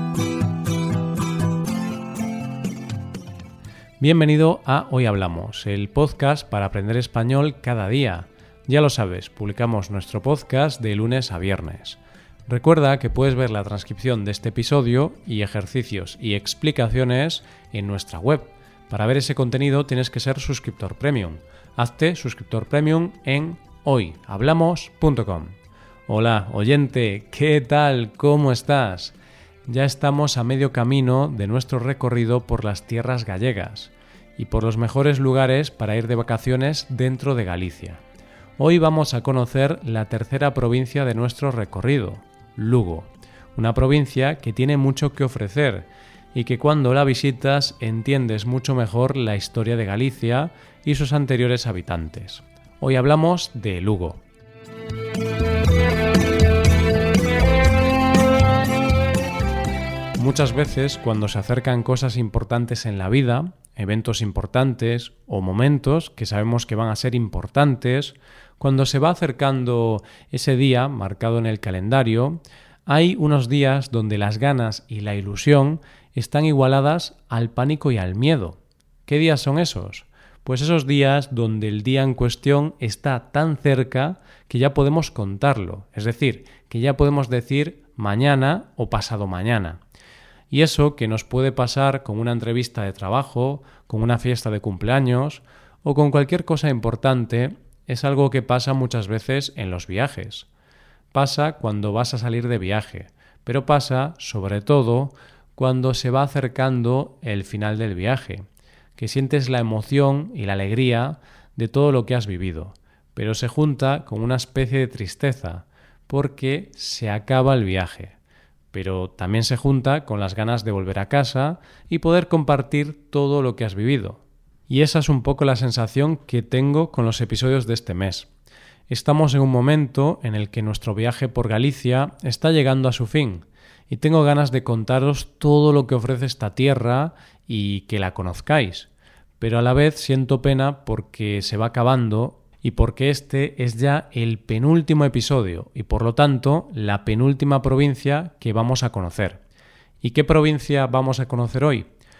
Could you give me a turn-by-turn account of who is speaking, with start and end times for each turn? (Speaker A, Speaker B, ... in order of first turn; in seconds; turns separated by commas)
Speaker A: 4.0-25.5, Speaker A: 26.1-29.1, Speaker A: 29.7-38.0, Speaker A: 38.6-54.2, Speaker A: 60.2-89.8, Speaker A: 90.5-100.5, Speaker A: 101.1-108.4, Speaker A: 109.0-118.2, Speaker A: 118.7-128.3, Speaker A: 128.9-149.4, Speaker A: 150.0-151.9